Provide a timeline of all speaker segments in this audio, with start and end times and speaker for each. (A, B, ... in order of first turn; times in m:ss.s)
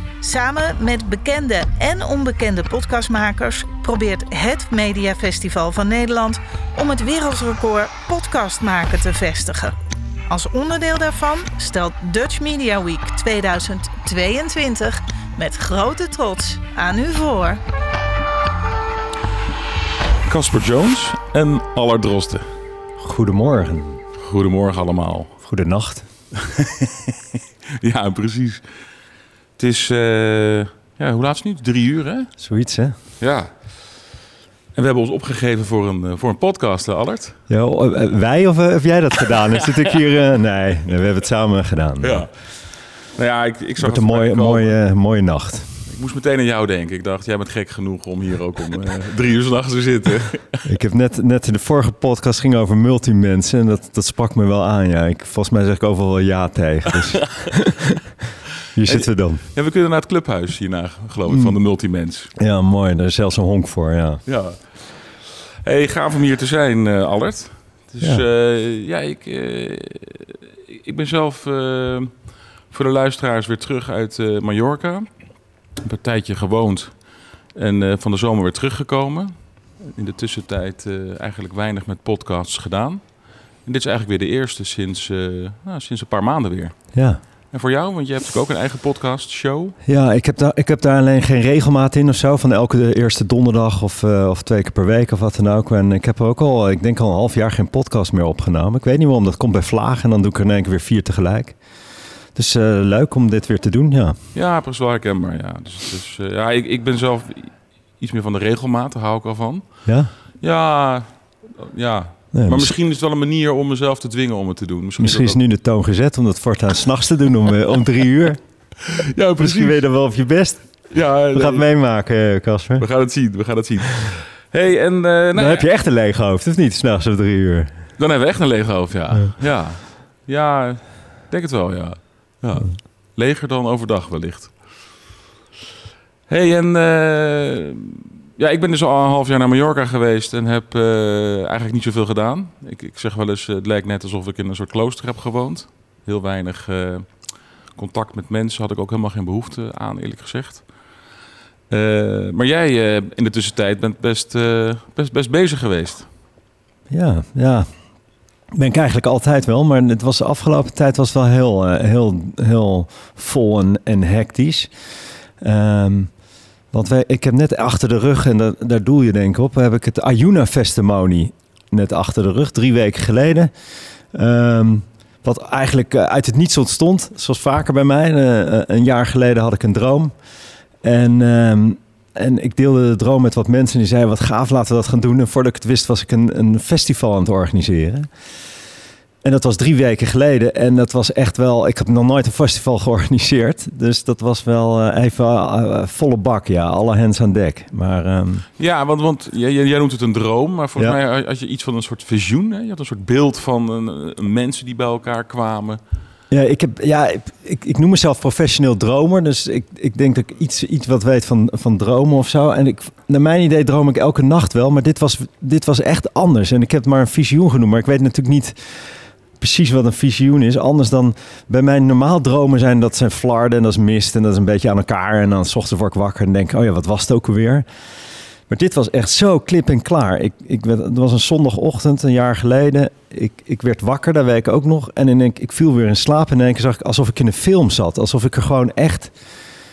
0:00.2-0:09.8 A
0:10.3-0:17.6 A
0:20.2-0:22.5 B
0:23.0-0:24.0 C
0:24.2-0:25.4 B
0:25.4-0:26.1 C
0:26.4-0:28.6 B
0:29.6-0:32.3 B
0:32.4-0:33.0 C
0:33.2-0:33.5 B
0:34.8-0:37.4 B
0:37.5-0:42.3 C
0:42.0-0:42.3 B
0:43.1-0:44.8 B
0:43.8-0:45.8 C
0:45.9-0:50.6 B
0:50.6-0:57.8 C
0:57.2-0:57.5 B
0:58.8-0:59.4 C
0:58.9-1:02.3 B
1:01.3-1:01.6 C
1:02.4-1:04.2 C
1:04.3-1:15.1 B
1:15.8-1:26.9 B
1:26.9-1:27.2 C
1:27.5-1:29.8 B
1:29.8-1:41.6 C
1:42.4-1:44.2 C
1:44.3-1:49.7 B
1:49.9-1:50.1 C
1:50.4-1:55.4 B
1:52.3-1:52.7 C
1:55.0-1:58.4 C
1:58.8-1:59.8 B
1:59.4-2:02.9 C
2:00.9-2:01.6 B
2:02.8-2:05.7 B
2:05.4-2:07.8 C
2:08.0-2:14.6 B
2:16.3-2:27.1 B
2:27.7-2:30.7 B
2:31.7-2:36.1 B
2:36.9-2:37.7 C
2:38.5-2:44.7 C
2:45.4-2:46.1 C
2:46.7-2:53.5 C
2:54.1-3:00.1 C
3:00.8-3:08.1 C
3:09.2-3:18.5 C
3:18.6-3:25.8 B
3:26.3-3:47.7 C
3:48.5-3:59.1 C